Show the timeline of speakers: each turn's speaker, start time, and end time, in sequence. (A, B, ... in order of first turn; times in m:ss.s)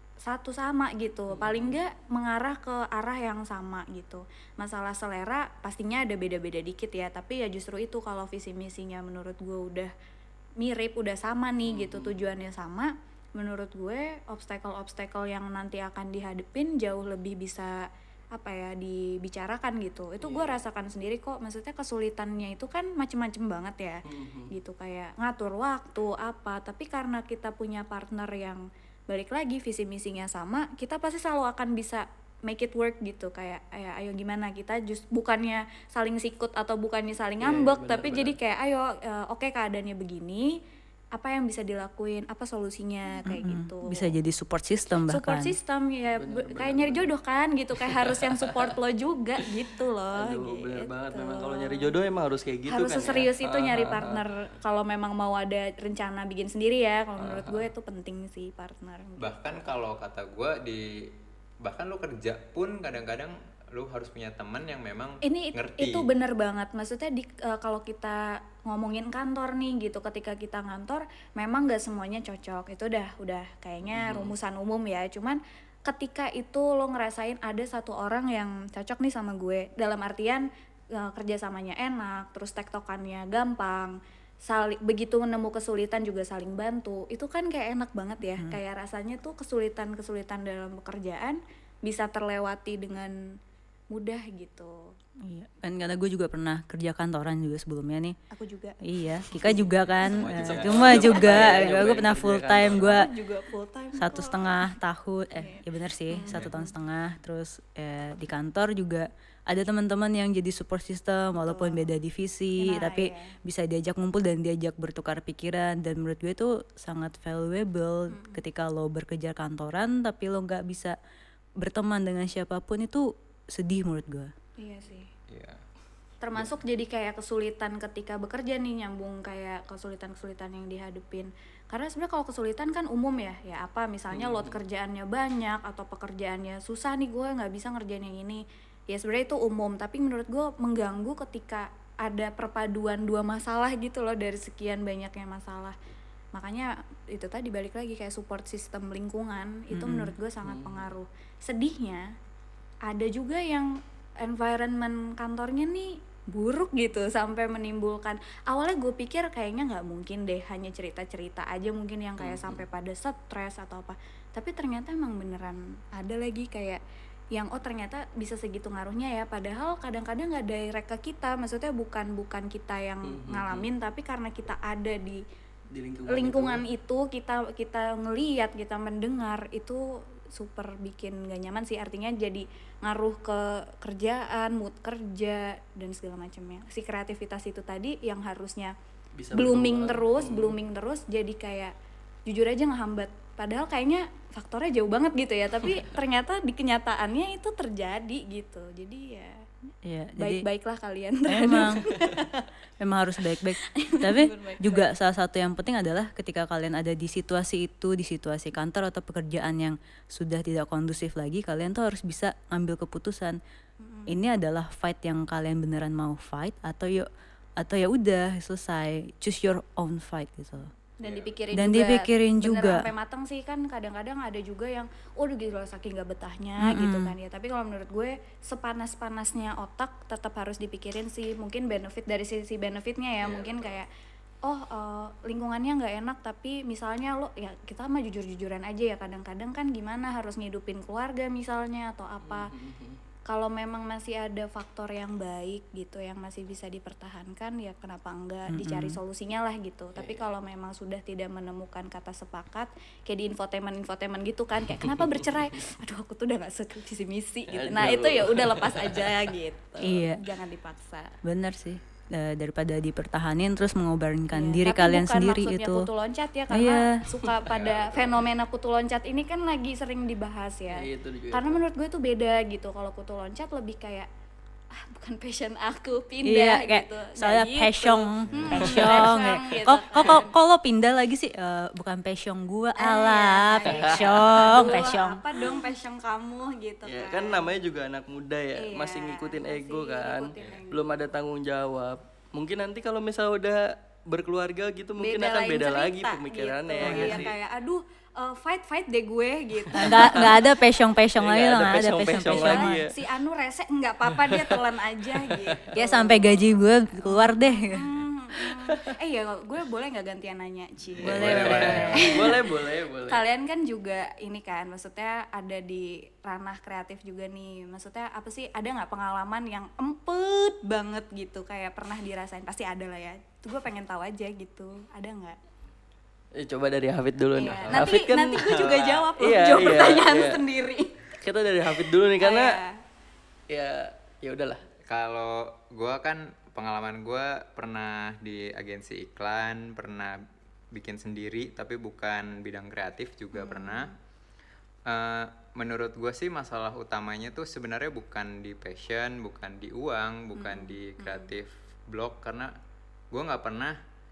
0:00.2-0:09.9 A
0:01.3-0:01.8 B
0:10.6-0:40.6 A
0:11.6-0:12.2 B
0:20.2-0:20.6 B
0:24.0-0:24.5 B
0:37.4-0:38.4 B
0:41.1-0:44.1 A
0:43.3-0:45.5 C
0:45.1-0:51.9 A
0:46.2-0:47.1 B
0:48.0-0:48.7 B
0:50.2-0:54.2 B
0:52.7-0:59.6 A
0:57.2-0:57.7 B
0:59.2-1:01.1 D
1:01.6-1:06.1 D
1:05.2-1:33.2 A
1:13.9-1:14.3 B
1:33.9-1:34.9 A
1:35.2-1:38.2 C
1:38.3-1:38.8 A
1:38.8-1:43.1 C
1:39.3-1:39.6 A
1:40.0-1:41.8 D
1:40.4-1:42.9 B
1:42.7-1:44.7 A
1:44.0-2:01.0 C
1:45.3-1:46.7 A
1:51.4-1:51.9 A
1:52.6-1:53.4 A
1:58.1-1:58.4 A
2:01.6-2:04.3 C
2:04.6-2:05.1 A
2:05.3-2:05.6 D
2:06.2-2:25.7 A
2:14.1-2:14.6 B
2:26.3-2:32.1 A
2:29.7-2:30.1 C
2:30.4-2:30.9 B
2:32.8-2:46.8 A
2:42.2-2:42.6 B
2:47.3-2:55.2 A
2:53.0-2:53.6 B
2:55.7-2:56.6 B
2:56.1-3:08.7 A
3:09.1-3:10.5 B
3:09.3-3:11.7 A
3:12.2-3:19.4 A
3:19.8-3:20.4 C
3:20.2-3:22.4 A
3:21.3-3:21.8 C
3:22.8-3:33.4 C
3:23.6-3:24.8 A
3:33.8-3:34.2 A
3:34.1-3:40.7 C
3:41.0-3:53.9 A
3:41.0-3:41.3 D
3:41.5-3:42.9 C
3:46.6-3:47.1 C
3:53.2-3:53.8 D
3:54.4-4:02.5 A
4:02.2-4:03.0 B
4:03.3-4:21.1 A
4:08.5-4:09.0 C
4:14.8-4:15.2 B
4:17.5-4:19.1 B
4:19.8-4:20.2 C
4:21.2-4:25.9 C
4:24.3-4:34.1 A
4:26.5-4:26.8 C
4:27.4-4:28.1 B
4:30.7-4:31.6 B
4:34.7-4:40.3 A
4:36.2-4:45.2 C
4:38.6-4:39.1 B
4:42.8-4:47.5 A
4:43.7-4:44.6 B
4:46.8-4:57.3 B
4:48.6-4:50.9 A
4:55.0-5:00.5 A
4:56.8-4:57.2 C
4:59.7-5:00.4 B
4:59.7-5:02.8 C
5:01.2-5:02.9 B
5:02.2-5:06.5 A
5:04.3-5:04.6 B
5:05.2-5:05.6 B
5:05.7-5:07.9 C
5:07.0-5:12.5 A
5:11.0-5:12.1 D
5:11.0-5:12.1 C
5:11.1-5:13.2 B
5:13.0-5:25.4 A
5:26.4-5:30.4 B
5:27.4-5:31.0 A
5:27.6-5:27.9 D
5:31.2-5:32.5 B
5:32.2-5:32.8 A
5:33.5-5:34.6 B
5:34.8-5:40.2 D
5:40.7-5:43.9 D
5:43.3-5:43.9 A
5:44.8-5:52.5 D
5:50.4-5:51.3 A
5:53.1-5:53.8 D